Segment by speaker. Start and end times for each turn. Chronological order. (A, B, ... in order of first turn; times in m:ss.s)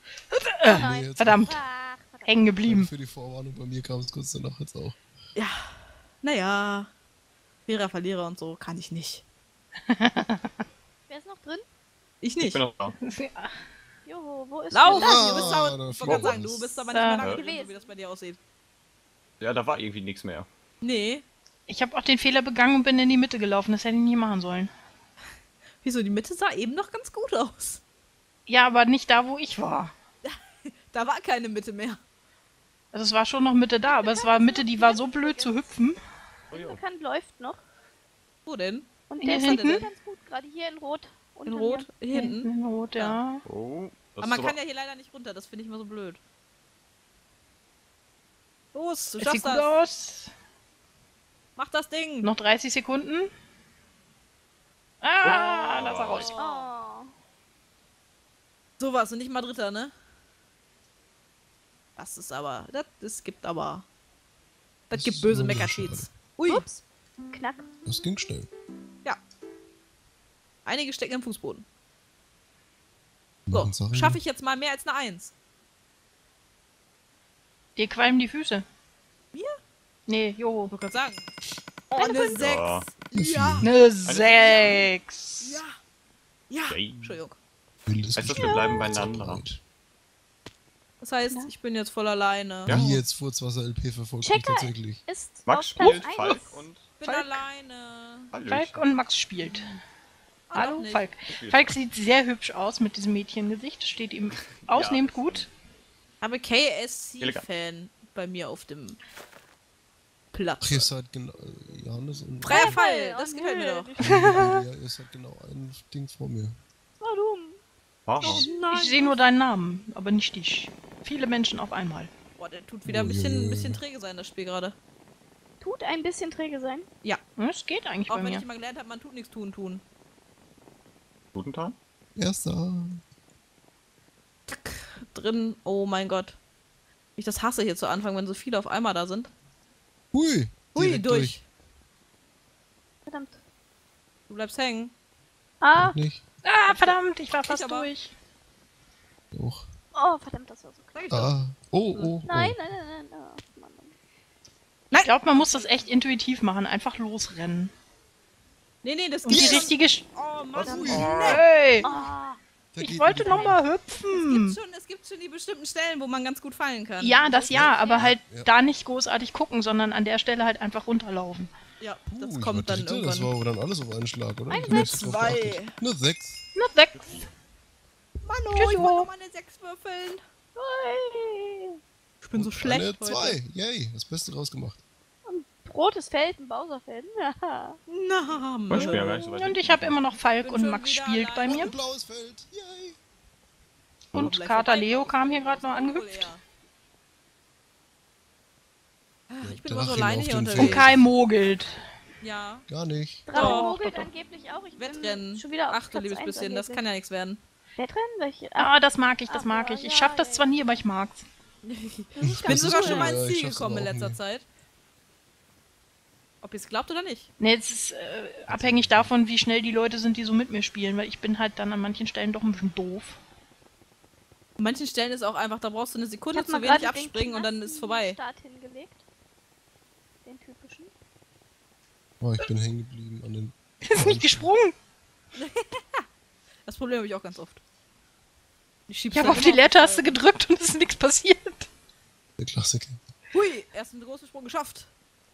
0:00.3-0:01.6 A
0:00.6-0:02.4 B
0:00.7-0:01.6 C
0:02.2-0:02.9 A
0:02.6-0:05.0 C
0:05.3-0:06.9 D
0:07.7-0:09.2 D
0:09.9-0:10.5 A
0:11.1-0:11.6 B
0:12.2-0:12.6 D
0:12.4-0:12.9 E
0:13.0-0:13.5 A
0:14.0-0:15.6 B
0:14.7-0:18.4 D
0:14.9-0:16.8 C
0:16.0-0:16.4 E
0:16.9-0:17.3 A
0:17.2-0:17.9 B
0:19.4-0:20.5 E
0:20.8-0:21.2 D
0:21.7-0:24.7 A
0:25.8-0:27.8 D
0:28.5-0:29.9 A
0:30.2-0:32.0 D
0:32.9-0:36.0 A
0:33.8-0:35.6 B
0:36.5-0:37.6 B
0:36.5-0:36.8 E
0:38.4-0:39.9 D
0:39.1-0:41.9 B
0:39.2-0:39.8 A
0:41.4-0:43.2 D
0:42.1-0:43.4 A
0:43.4-0:44.6 E
0:44.2-0:46.2 D
0:48.7-0:49.7 D
0:49.2-0:50.3 A
0:51.6-0:52.3 D
0:52.2-0:53.3 A
0:55.0-0:56.3 A
0:55.2-0:56.3 E
0:56.1-0:56.7 D
0:56.4-0:57.1 B
0:58.8-0:59.9 D
1:02.0-1:03.8 D
1:04.9-1:06.7 D
1:04.9-1:06.1 C
1:06.4-1:07.6 B
1:07.8-1:08.5 C
1:10.6-1:11.6 D
1:13.5-1:14.2 C
1:13.5-1:15.3 D
1:17.8-1:18.6 A
1:19.3-1:19.6 D
1:20.1-1:20.7 A
1:20.7-1:21.3 D
1:21.9-1:22.4 B
1:21.9-1:23.7 D
1:22.3-1:22.9 E
1:23.1-1:23.7 C
1:23.6-1:25.6 A
1:24.0-1:24.9 E
1:24.2-1:24.8 D
1:25.4-1:25.8 D
1:26.5-1:27.4 D
1:26.7-1:27.2 E
1:27.8-1:29.6 C
1:28.2-1:29.4 E
1:28.3-1:29.1 B
1:31.0-1:32.8 D
1:32.6-1:33.0 E
1:32.7-1:35.0 C
1:34.2-1:36.6 B
1:35.4-1:36.9 E
1:35.8-1:36.4 A
1:37.0-1:38.3 D
1:37.0-1:37.4 A
1:38.3-1:38.8 E
1:38.5-1:39.7 A
1:40.5-1:41.1 D
1:40.5-1:45.5 A
1:41.3-1:41.8 E
1:44.4-1:45.5 E
1:46.2-1:49.0 D
1:47.2-1:47.5 E
1:50.3-1:50.9 D
1:50.6-1:52.8 C
1:52.4-1:53.9 D
1:52.4-1:54.2 B
1:54.0-1:56.6 C
1:54.0-1:54.6 A
1:57.0-1:57.6 B
1:58.1-1:58.4 E
1:58.2-1:59.2 D
1:58.2-2:02.1 A
1:58.2-1:58.6 B
2:02.4-2:04.8 D
2:02.8-2:03.8 C
2:05.6-2:06.8 B
2:07.4-2:08.4 A
2:08.1-2:09.8 D
2:11.3-2:11.8 E
2:12.2-2:13.0 C
2:14.5-2:16.4 D
2:17.2-2:19.3 D
2:20.1-2:21.4 C
2:20.7-2:21.4 D
2:23.0-2:23.4 B
2:24.3-2:24.9 D
2:25.6-2:26.0 B
2:25.7-2:26.2 C
2:26.4-2:28.1 A
2:26.7-2:27.9 D
2:29.3-2:29.7 C
2:29.9-2:31.0 B
2:30.9-2:31.3 D
2:31.1-2:32.6 C
2:32.2-2:33.9 B
2:34.9-2:35.9 D
2:34.9-2:37.7 A
2:38.8-2:41.9 D
2:39.2-2:40.0 A
2:39.3-2:39.6 C
2:40.5-2:41.4 E
2:40.6-2:41.4 C
2:40.6-2:41.3 B
2:41.1-2:42.1 A
2:41.8-2:42.4 B
2:42.7-2:43.6 C
2:42.8-2:44.6 A
2:43.3-2:43.5 B
2:44.1-2:48.0 D
2:47.0-2:51.5 A
2:47.5-2:48.5 C
2:47.6-2:48.0 B
2:51.8-2:53.3 D
2:52.1-2:56.4 C
2:54.5-2:55.0 B
2:54.6-2:55.8 D
2:56.5-2:57.2 A
2:56.9-2:57.3 E
2:58.2-3:00.2 D
2:58.5-2:59.1 A
3:00.6-3:01.8 B
3:02.2-3:03.4 D
3:02.3-3:04.8 C
3:05.2-3:07.8 B
3:07.9-3:09.2 D
3:08.7-3:10.2 E
3:08.7-3:11.7 A
3:10.4-3:11.8 D
3:11.4-3:13.0 C
3:14.1-3:16.3 A
3:14.1-3:16.4 D
3:19.3-3:20.9 D
3:19.4-3:21.1 C
3:20.6-3:21.8 A
3:22.2-3:22.6 D
3:22.7-3:23.4 C
3:23.2-3:26.8 B
3:23.3-3:23.8 D
3:23.3-3:24.1 A
3:24.8-3:27.4 D
3:27.8-3:28.7 B
3:28.6-3:31.2 A
3:29.3-3:30.5 B
3:31.6-3:34.4 D
3:32.2-3:34.2 C
3:32.4-3:33.1 B
3:32.7-3:33.1 A
3:36.4-3:37.3 D
3:37.4-3:43.2 A
3:38.5-3:39.1 C
3:44.6-3:48.2 D
3:46.3-3:49.0 B
3:50.2-3:50.9 B
3:52.2-3:54.5 C
3:53.8-3:54.7 A
3:55.3-3:56.0 D
3:56.6-3:57.6 D
3:58.9-4:00.2 D
3:59.1-4:01.7 A
4:02.4-4:03.0 C
4:03.3-4:04.9 D